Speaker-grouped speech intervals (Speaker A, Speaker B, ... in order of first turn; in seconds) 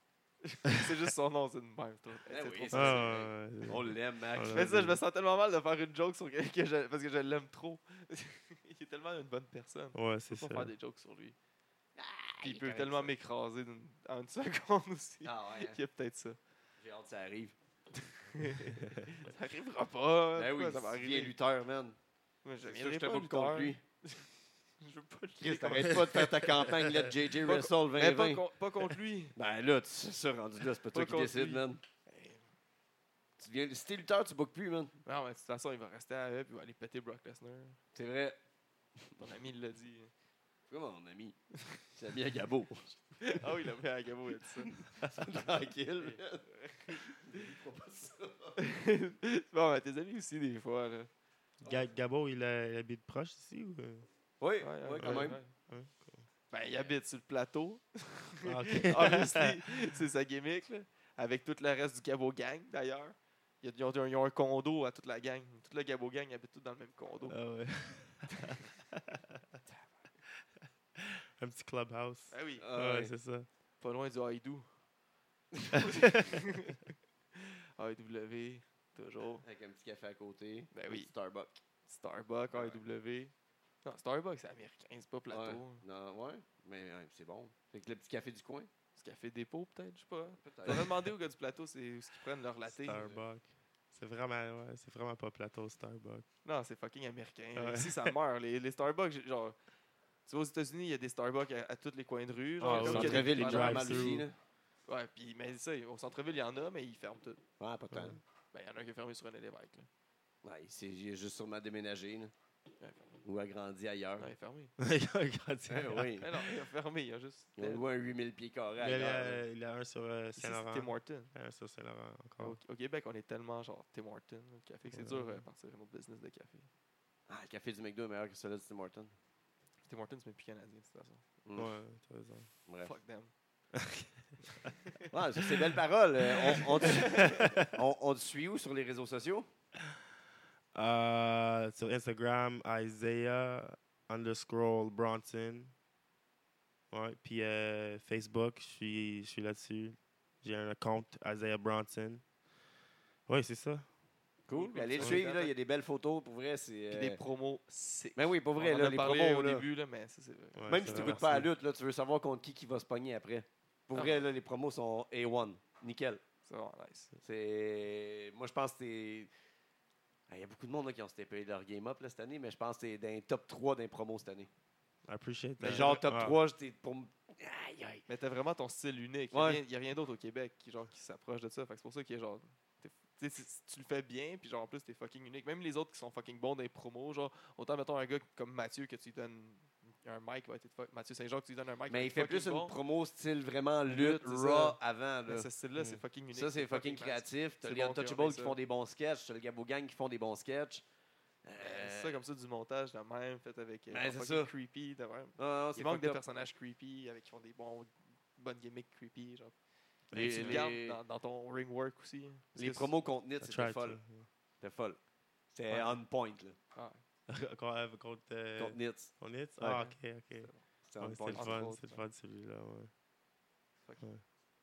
Speaker A: 0.4-3.3, 4.5-11.3, 12.4-16.4, 18.0-21.3, 22.4-26.7, 27.4-29.3, 30.9-32.5, 35.0-37.8, 39.2-40.1, 43.2-44.8, 46.0-47.2, 48.6-51.1, 54.6-55.5, 56.5-68.6, 72.3-72.7, 73.8-74.7, 75.6-79.4, 80.7-81.1, 81.8-83.3, 83.8-85.8, 89.0-93.0, 96.4-99.5, 100.2-104.2, 104.9-107.4, 108.5-109.9, 112.8-113.2, 114.2-114.7, 116.2-117.8, 120.4-121.3, 122.4-126.7, 129.8-131.2, 132.8-133.3, 134.4-135.1, 136.6-137.4, 154.5-155.5, 156.9-161.2, 163.9-164.2, 166.5-167.1, 175.6-176.0, 178.1-192.8, 193.9-198.6, 201.6-209.5, 210.1-212.9, 215.7-216.0, 216.7-217.0, 219.7-220.6, 221.3-222.0
Speaker B: 2.3-4.9, 11.9-13.1, 15.2-15.8, 16.8-17.6, 20.3-22.0, 22.6-23.8, 25.4-28.4, 29.3-31.8, 33.4-34.9, 37.9-38.4, 40.7-42.9, 44.7-48.6, 54.4-55.4, 72.6-73.1, 79.4-81.6, 82.5-82.8, 85.3-88.7, 90.4-91.0, 92.9-93.2, 102.7-104.3, 107.6-108.2, 110.4-112.3, 113.2-114.3, 115.7-116.3, 117.6-119.4, 127.3-129.1, 131.4-131.8, 132.7-132.9, 135.1-139.5, 154.5-157.2, 158.1-159.6, 160.7-166.2, 167.2-169.3, 170.3-174.5, 175.6-178.0, 179.3-179.6, 191.9-200.8, 201.4-202.2, 203.9-204.5, 205.4-206.2, 210.1-211.0, 212.5-214.0, 214.6-216.6, 218.6-219.8, 220.8-221.8
Speaker C: 2.7-5.0, 9.9-10.7, 51.6-54.1, 55.0-56.2, 58.4-60.0, 67.3-69.0, 71.0-73.5, 92.8-96.2, 97.5-98.2, 102.6-104.2, 107.9-108.2, 114.8-116.5, 118.8-122.6, 124.9-125.4, 131.6-132.5, 133.7-134.7, 137.2-137.7, 140.7-145.7, 146.9-152.2, 153.3-153.9, 155.0-155.2, 160.6-161.5, 175.1-176.4, 210.1-210.7, 213.4-214.3, 217.3-222.9